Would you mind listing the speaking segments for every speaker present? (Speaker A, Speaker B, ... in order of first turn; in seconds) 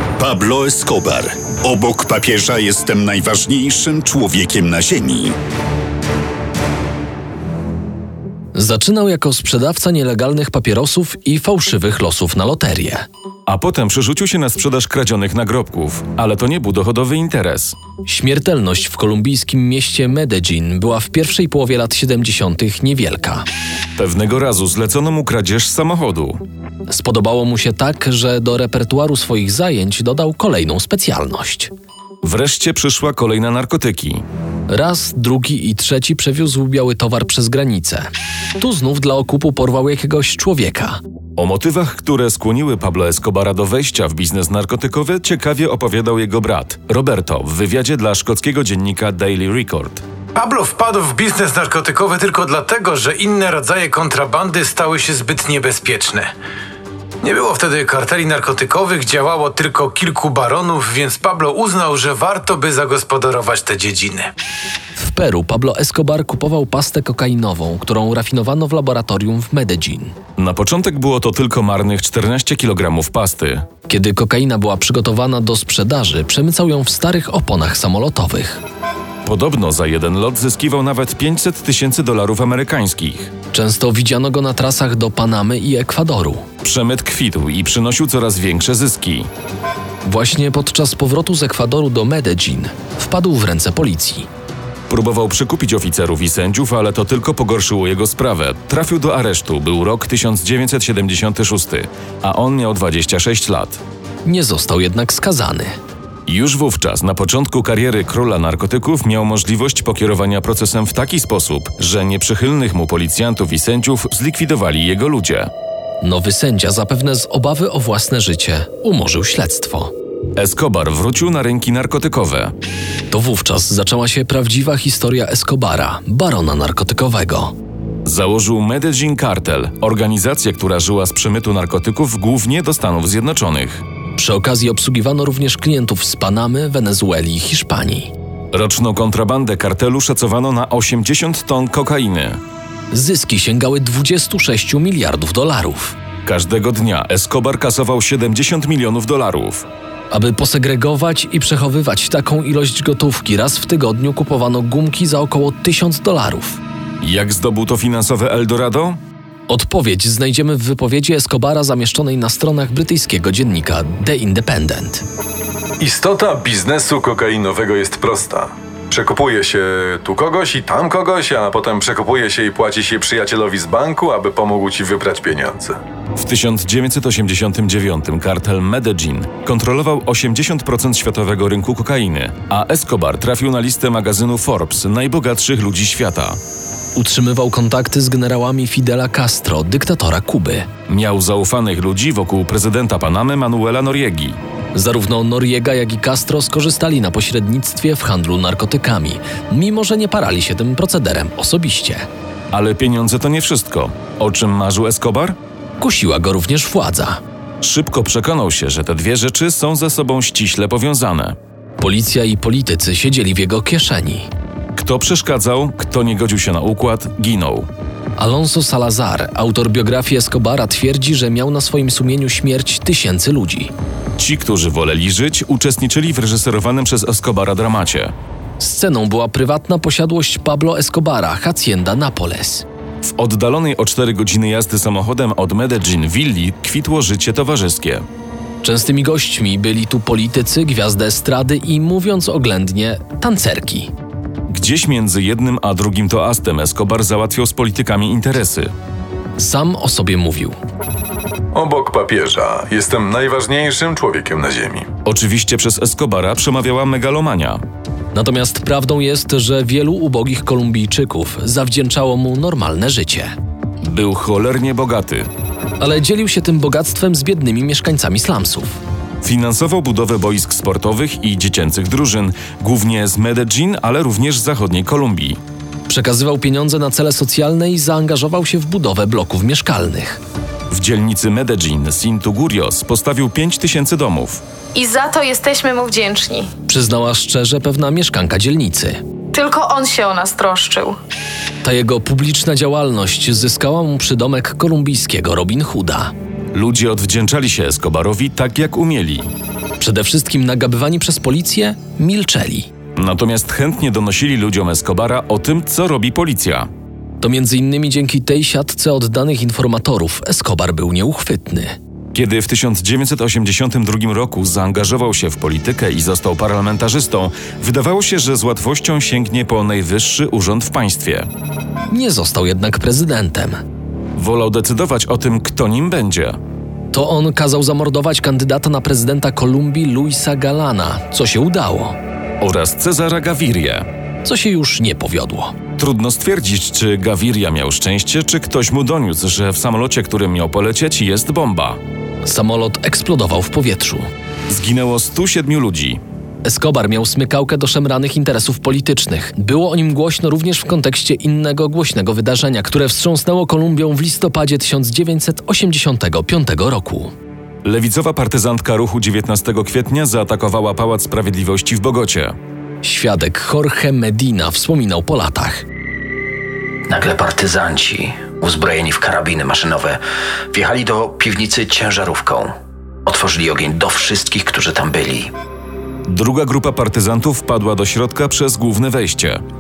Speaker A: 0.2-5.3
Speaker B: 8.6-13.1, 18.1-23.4, 26.9-31.7, 34.7-41.0, 65.0-70.2, 73.9-78.6, 83.5-86.5, 90.0-94.3, 104.2-105.8, 116.0-119.9, 123.1-127.5, 134.2-138.1, 142.9-146.0, 150.1-156.6, 159.5-165.1, 186.9-190.7, 194.7-202.1, 205.8-207.2, 211.8-214.3, 218.2-223.7, 228.6-232.7, 238.6-243.9, 249.4-250.6, 258.1-263.3, 265.8-268.8, 275.9-280.2, 286.7-289.0, 291.6-296.1, 299.8-302.7, 307.2-311.8, 321.9-323.6, 326.9-332.0, 334.2-335.5, 342.2-344.1, 346.4-357.1, 362.8-365.6
Speaker C: 13.5-17.8, 24.0-26.4, 32.2-34.2, 41.4-50.0, 70.4-73.7, 79.2-83.3, 86.6-89.3, 94.9-103.8, 106.3-115.5, 120.4-122.5, 128.1-133.8, 138.5-142.4, 146.2-149.7, 157.0-159.0, 176.2-186.4, 190.9-194.4, 202.5-205.4, 207.6-211.4, 214.7-217.7, 224.2-228.1, 233.0-238.1, 244.5-248.7, 255.1-257.6, 263.8-265.3, 269.2-275.4, 280.7-284.4, 296.5-299.3, 303.0-306.7, 312.1-321.3, 324.2-326.4, 332.4-333.9, 335.8-341.8, 344.5-346.0, 357.6-362.4, 376.1-379.4
Speaker D: 50.3-56.3, 57.2-64.3
Speaker E: 165.8-175.8, 251.5-254.9
Speaker F: 284.8-286.5, 289.3-291.0
Speaker G: 366.9-370.0, 370.5-372.5, 373.1-375.3